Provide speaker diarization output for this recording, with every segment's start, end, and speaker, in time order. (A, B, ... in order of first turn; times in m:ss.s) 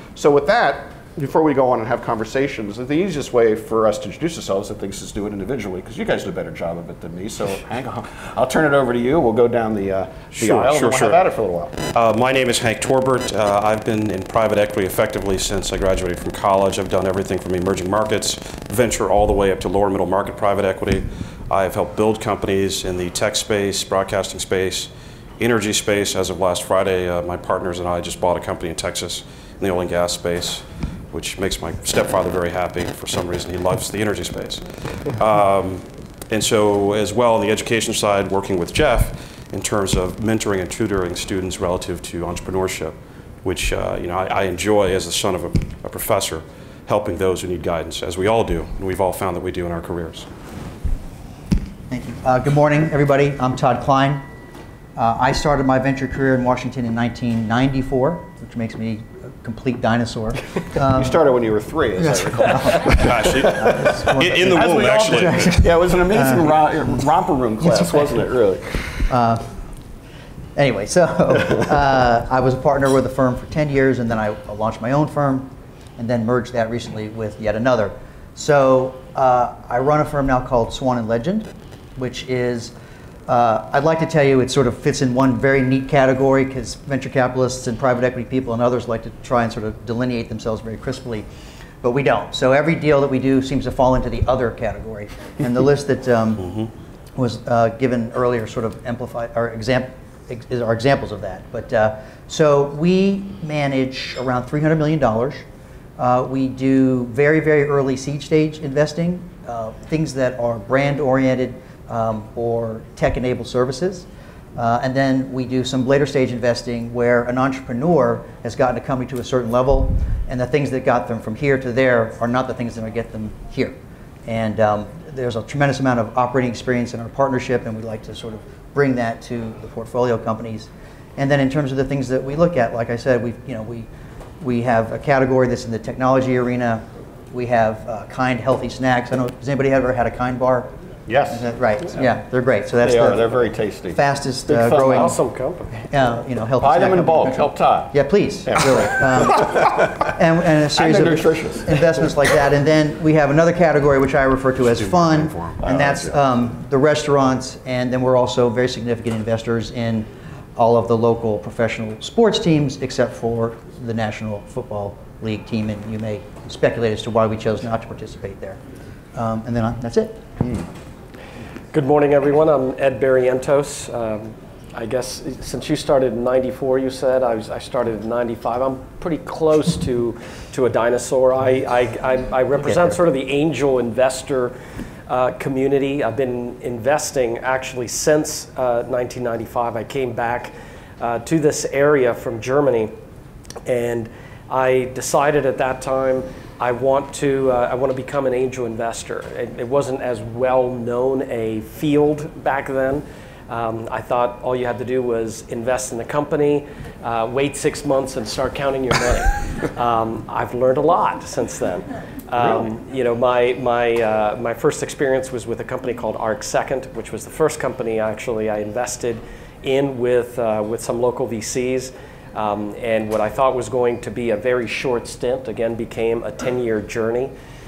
0:00.2-0:11.8 A
0:10.4-0:11.2 B
0:11.9-0:50.3 B
0:51.9-0:54.3 C
0:55.0-1:01.2 C
1:00.8-1:09.1 A
1:02.0-1:06.7 C
1:02.9-1:05.7 B
1:07.6-1:08.2 C
1:09.1-1:09.5 C
1:10.6-1:22.7 C
1:23.3-1:31.2 C
1:31.8-1:36.5 C
1:37.2-1:45.4 C
1:46.0-2:13.9 C
2:14.4-2:20.7 C
2:21.1-2:22.1 A
2:21.3-2:23.4 C
2:22.8-2:25.1 A
2:23.9-2:25.2 C
2:24.8-2:25.7 D
2:25.8-2:48.6 C
2:26.6-2:27.9 A
2:28.4-2:30.1 A
2:30.8-2:32.3 A
2:34.9-2:35.6 B
2:35.6-2:36.2 A
2:49.1-2:50.2 C
2:51.7-3:04.6 D
3:02.6-3:03.0 C
3:05.1-3:12.9 D
3:13.6-3:47.3 D
3:32.4-3:32.6 A